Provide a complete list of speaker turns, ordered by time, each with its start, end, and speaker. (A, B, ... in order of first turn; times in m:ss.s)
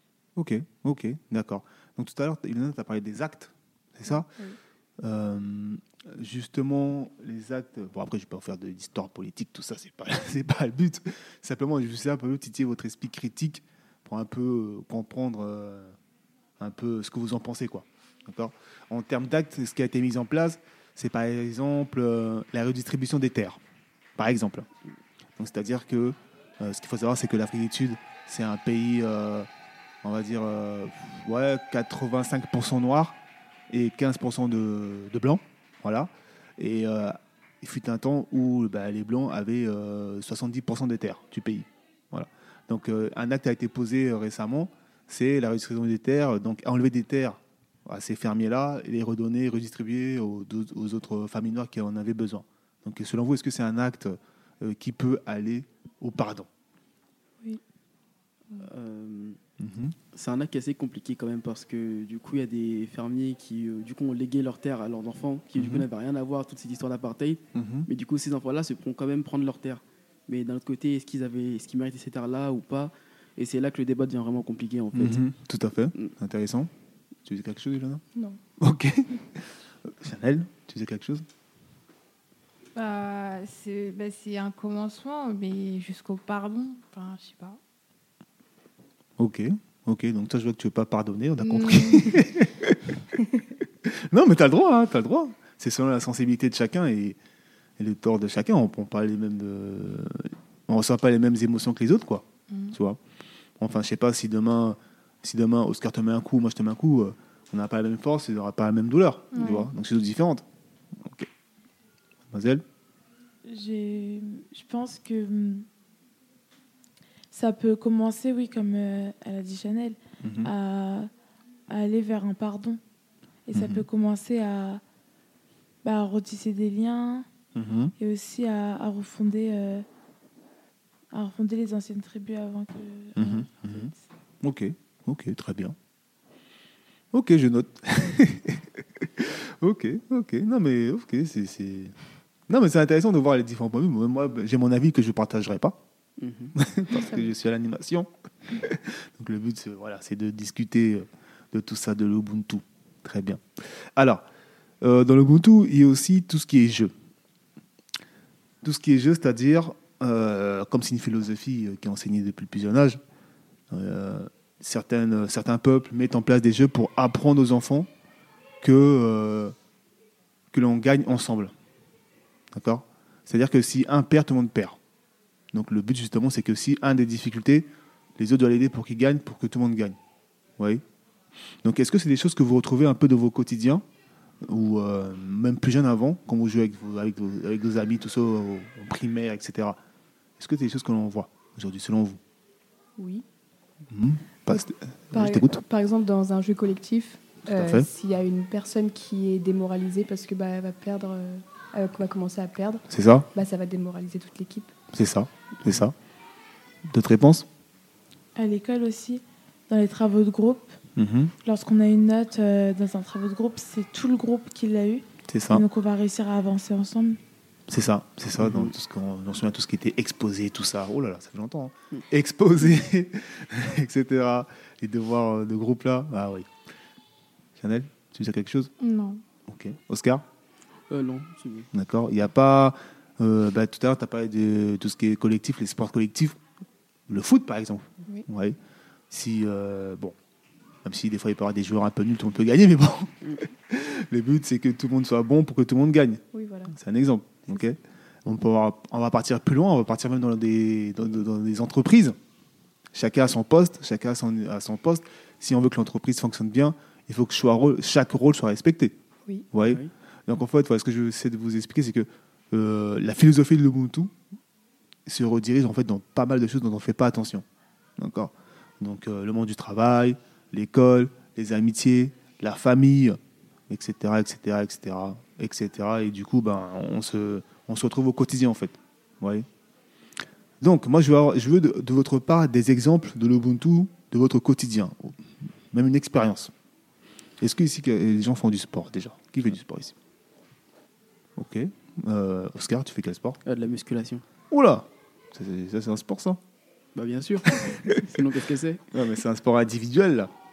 0:00.4-0:04.3 A
0:05.0-0:16.0 A
0:16.6-0:23.6 A
0:24.2-0:24.7 A
0:25.4-0:29.5 A
0:30.0-0:33.2 A
0:33.7-0:56.5 A
0:58.6-0:59.4 B
0:59.6-1:00.0 A
1:00.1-1:15.2 B
1:05.6-1:05.8 A
1:07.5-1:07.9 A
1:14.9-1:16.7 A
1:17.2-1:18.0 A
1:18.1-1:18.4 C
1:18.6-1:21.2 A
1:22.7-1:27.6 D
1:29.2-1:32.8 A
1:31.4-1:32.2 D
1:33.9-1:37.2 A
1:37.8-1:43.0 A
1:42.5-1:42.8 D
1:43.6-1:50.4 A
1:49.3-1:49.7 D
1:51.0-1:51.3 A
1:52.3-1:52.6 A
1:53.4-1:55.6 E
1:57.3-2:01.1 E
2:00.2-2:00.5 A
2:01.7-2:02.8 E
2:03.5-2:04.8 E
2:03.5-2:03.8 A
2:05.8-2:07.2 E
2:07.5-2:07.9 A
2:08.0-2:09.8 E
2:11.1-2:13.9 E
2:13.2-2:15.7 A
2:17.1-2:18.6 A
2:19.2-2:21.9 A
2:22.5-2:25.8 A
2:26.2-2:26.6 B
2:26.5-2:28.1 A
2:27.0-2:27.3 C
2:28.6-2:34.2 A
2:34.8-2:36.9 A
2:38.6-2:43.0 A
2:43.7-2:47.9 A
2:48.6-2:49.5 A
2:50.5-2:51.5 A
2:52.5-2:54.8 A
2:55.5-3:00.0 A
3:01.6-3:03.8 A
3:04.4-3:09.8 A
3:10.4-3:12.2 A
3:13.0-3:13.2 C
3:13.9-3:15.6 A
3:15.1-3:24.7 C
3:17.5-3:17.9 A
3:22.9-3:23.3 A
3:24.9-3:25.9 A
3:26.9-3:27.4 A
3:28.4-3:30.8 E
3:31.0-3:31.3 A
3:31.4-3:37.2 E
3:35.3-3:35.6 A
3:37.7-3:46.5 A
3:38.4-3:38.7 B
3:47.6-3:48.7 A
3:48.8-3:49.2 D
3:49.5-3:50.2 A
3:50.9-3:51.7 B
3:51.7-3:56.4 A
3:57.1-3:58.6 A
3:59.1-4:00.1 A
4:00.8-4:12.2 A
4:06.3-4:06.7 C
4:12.9-4:18.9 A
4:19.5-4:24.1 A
4:19.6-4:19.9 B
4:25.0-4:27.4 A
4:28.0-4:33.2 A
4:33.7-4:39.4 A
4:40.6-4:45.2 A
4:45.7-4:46.5 A
4:47.4-4:49.9 A
4:51.4-4:53.4 A
4:53.4-4:54.2 B
4:54.5-4:56.4 A
4:56.9-4:58.8 B
4:58.9-5:00.3 A